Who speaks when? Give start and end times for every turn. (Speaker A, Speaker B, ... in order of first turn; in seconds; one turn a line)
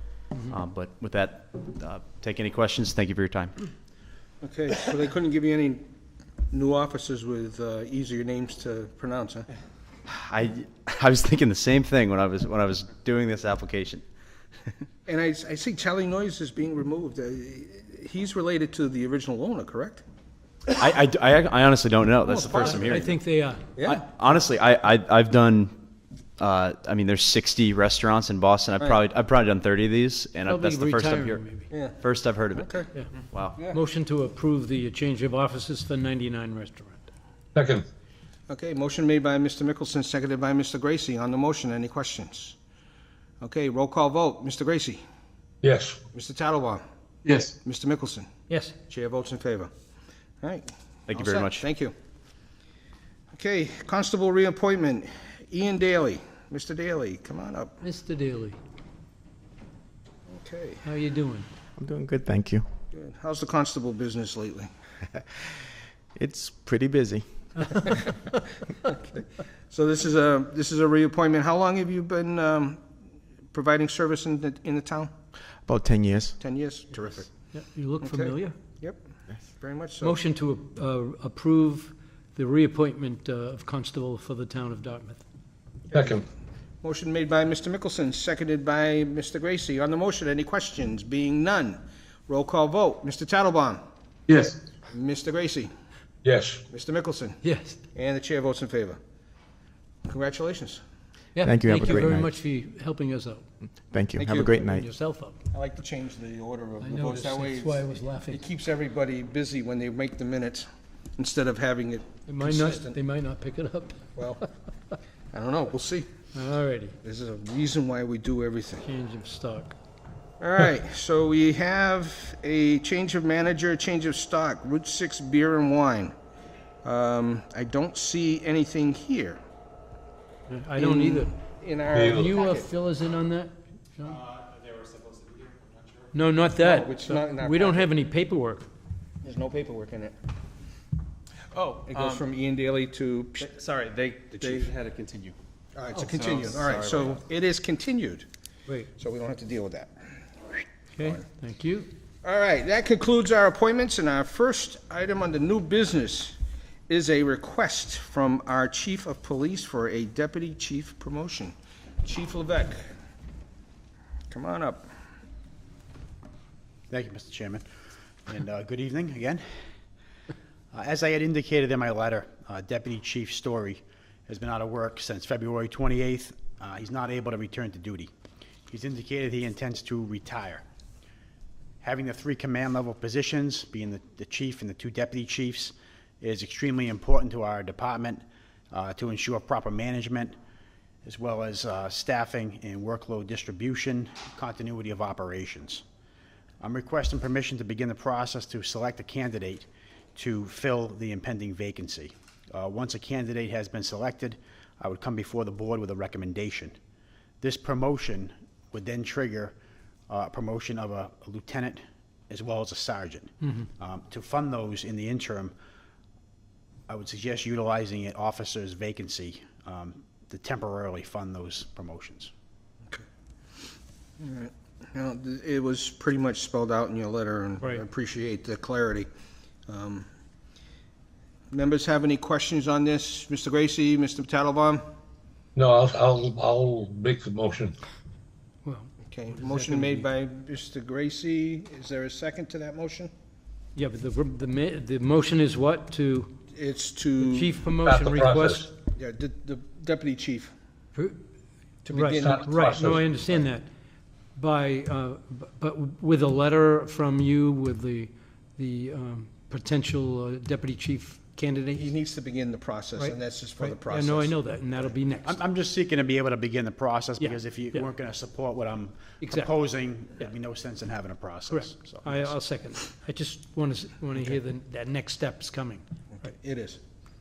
Speaker A: 0.5-3.5
Speaker B: 4.4-5.8
Speaker B: 6.5-9.5
Speaker A: 10.1-14.1
Speaker B: 15.1-20.0
Speaker A: 20.7-23.1
Speaker B: 22.2-23.1
Speaker C: 22.6-23.7
Speaker A: 23.8-25.8
Speaker A: 26.4-32.8
Speaker C: 30.5-31.7
Speaker B: 31.7-32.0
Speaker B: 32.5-32.9
Speaker A: 33.3-33.6
Speaker B: 33.5-33.8
Speaker C: 33.6-37.1
Speaker D: 37.5-37.9
Speaker B: 38.5-42.5
Speaker B: 43.4-45.0
Speaker D: 45.6-46.0
Speaker B: 46.1-48.3
Speaker D: 47.3-47.5
Speaker C: 48.5-48.8
Speaker B: 48.9-49.7
Speaker B: 50.4-51.9
Speaker A: 51.1-51.6
Speaker B: 53.3-57.8
Speaker C: 57.8-58.6
Speaker B: 60.3-60.9
Speaker C: 60.8-61.5
Speaker E: 61.8-62.7
Speaker B: 62.9-64.7
Speaker E: 66.2-68.1
Speaker C: 67.6-68.1
Speaker B: 68.8-72.8
Speaker B: 73.5-75.1
Speaker E: 75.7-76.4
Speaker B: 76.4-77.5
Speaker C: 77.5-78.5
Speaker B: 78.0-80.2
Speaker C: 80.0-85.2
Speaker B: 85.9-86.2
Speaker D: 85.9-86.2
Speaker B: 86.8-93.8
Speaker D: 94.3-94.6
Speaker B: 94.9-95.7
Speaker D: 96.2-96.6
Speaker B: 96.7-97.4
Speaker C: 97.4-97.8
Speaker B: 98.0-99.0
Speaker B: 100.1-100.8
Speaker C: 101.4-103.4
Speaker E: 101.4-102.3
Speaker B: 101.8-102.1
Speaker E: 103.9-104.9
Speaker B: 104.2-104.6
Speaker C: 104.6-105.3
Speaker B: 105.5-110.7
Speaker C: 106.8-108.4
Speaker B: 111.2-113.0
Speaker C: 112.3-114.0
Speaker B: 114.2-114.4
Speaker B: 115.3-116.1
Speaker C: 116.3-117.0
Speaker B: 117.0-118.9
Speaker C: 118.8-119.7
Speaker B: 120.4-126.1
Speaker B: 126.8-129.4
Speaker C: 130.5-131.3
Speaker B: 130.8-132.7
Speaker D: 131.9-132.3
Speaker C: 132.2-134.2
Speaker C: 136.1-138.7
Speaker B: 136.6-137.9
Speaker B: 139.2-140.2
Speaker A: 141.6-142.2
Speaker B: 141.9-143.5
Speaker A: 143.5-145.3
Speaker B: 144.3-144.7
Speaker B: 145.8-148.3
Speaker A: 146.1-147.2
Speaker B: 148.9-149.9
Speaker C: 151.0-151.9
Speaker B: 152.2-156.4
Speaker B: 156.9-162.8
Speaker B: 164.3-164.9
Speaker F: 166.9-167.7
Speaker F: 168.3-169.4
Speaker F: 170.7-178.1
Speaker F: 178.7-180.6
Speaker F: 181.8-190.3
Speaker F: 191.0-195.8
Speaker F: 196.6-206.8
Speaker F: 207.4-209.6
Speaker F: 210.1-215.6
Speaker F: 216.9-222.3
Speaker B: 224.2-229.1
Speaker B: 229.7-230.1
Speaker B: 231.5-234.8
Speaker D: 235.6-237.8
Speaker C: 238.7-240.1
Speaker B: 239.1-243.1
Speaker C: 243.8-246.3
Speaker B: 246.5-247.5
Speaker C: 247.2-248.7
Speaker D: 247.7-248.7
Speaker B: 248.9-250.5
Speaker B: 251.9-253.5
Speaker C: 251.9-253.7
Speaker D: 252.2-253.0
Speaker C: 254.4-261.9
Speaker B: 261.8-265.0
Speaker C: 263.0-265.4
Speaker F: 265.2-272.4
Speaker C: 267.2-267.8
Speaker C: 269.2-269.5
Speaker C: 271.5-275.8
Speaker B: 276.2-276.8